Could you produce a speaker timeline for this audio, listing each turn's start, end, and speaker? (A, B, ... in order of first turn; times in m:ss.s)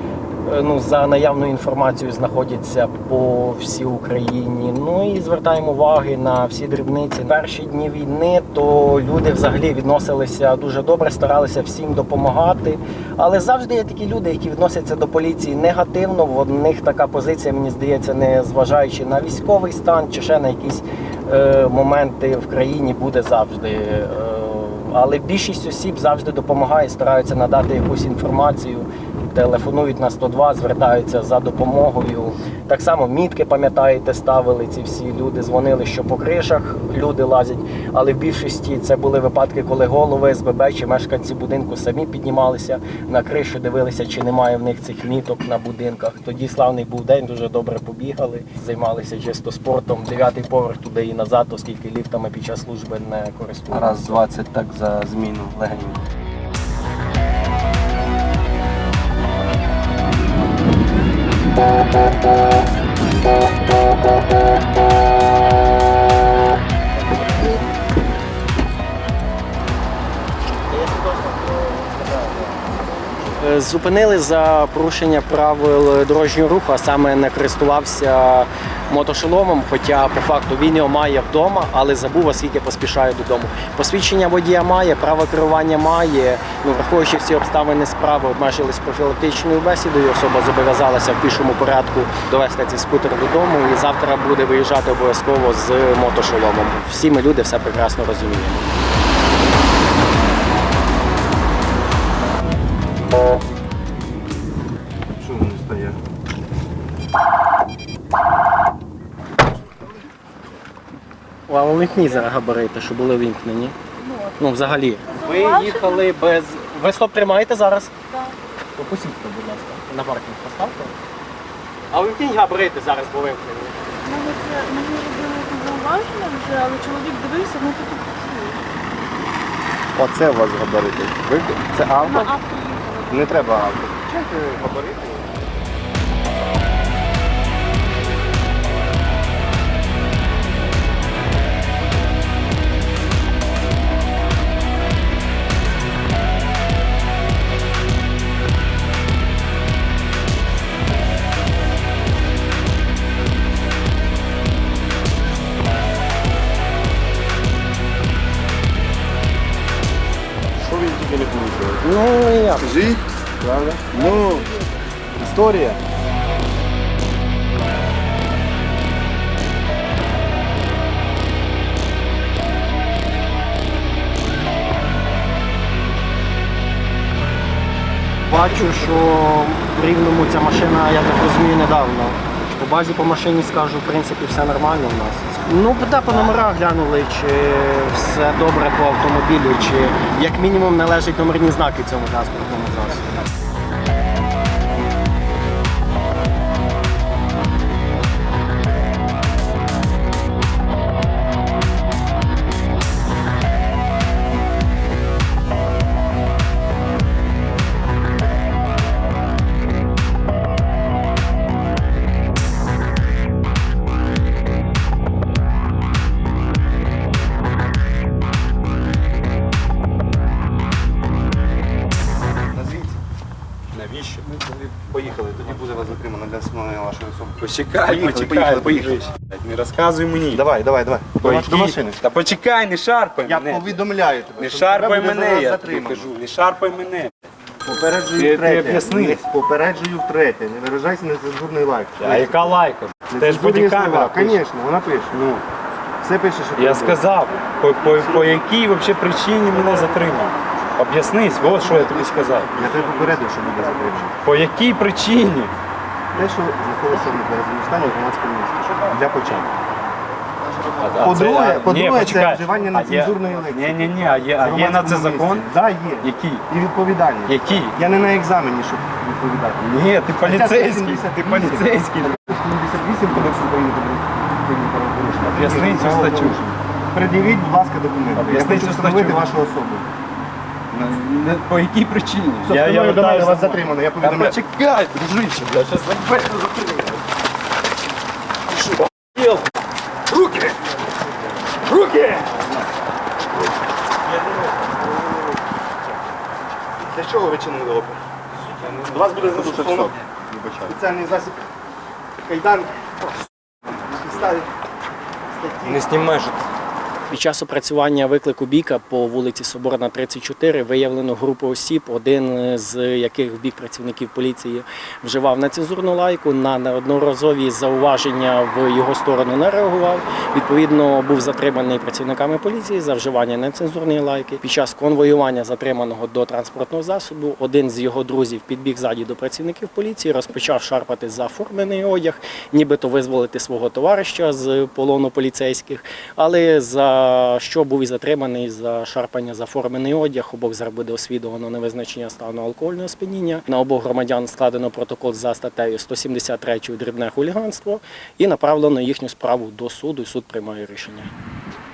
0:00.4-0:54.2 A
0:53.8-0:56.0 B
1:10.7-1:38.7 A
1:45.2-1:46.0 C
1:51.5-1:53.8 A
1:54.0-1:54.4 D
1:54.4-1:58.0 A
1:55.1-1:56.0 D
1:58.1-1:58.4 D
1:58.8-2:01.0 A
2:01.9-2:03.8 A
2:04.0-2:08.7 D
2:10.0-2:12.4 C
2:12.0-2:13.6 D
2:13.1-2:15.3 C
2:40.6-2:41.8 C
2:41.8-2:43.0 A
2:42.7-2:44.5 C
2:44.1-2:44.6 D
2:45.2-2:45.8 C
2:58.3-3:13.2 A
3:42.6-3:42.9 C
3:43.7-3:44.7 E
3:44.5-3:49.0 C
3:47.4-3:50.4 E
3:50.3-3:52.0 C
3:51.2-3:53.8 E
3:53.2-3:56.1 C
3:54.4-3:57.1 E
3:57.6-4:02.6 C
3:58.2-3:59.3 E
4:02.0-4:04.4 E
4:03.1-4:05.2 C
4:05.1-4:05.4 E
4:06.0-4:07.0 C
4:06.6-4:12.7 E
4:11.4-4:14.2 C
4:14.2-4:15.5 E
4:16.1-4:19.5 C
4:18.7-4:19.5 E
4:20.8-4:26.5 E
4:20.9-4:29.6 C
4:27.3-4:27.8 E
4:29.6-4:32.2 E
4:30.2-4:39.9 C
4:35.3-4:36.4 E
4:38.2-4:39.3 E
4:40.7-4:46.9 E
4:42.4-4:44.4 C
4:48.6-4:49.4 E
4:50.1-4:50.5 E
4:51.7-4:52.3 E
4:55.1-4:55.4 C
4:56.8-4:58.0 C
4:58.6-5:00.5 E
4:58.8-5:00.0 C
5:00.5-5:01.4 C
5:02.2-5:03.1 C
5:03.8-5:04.5 C
5:05.3-5:06.0 C
5:05.6-5:06.4 E
5:07.1-5:51.1 A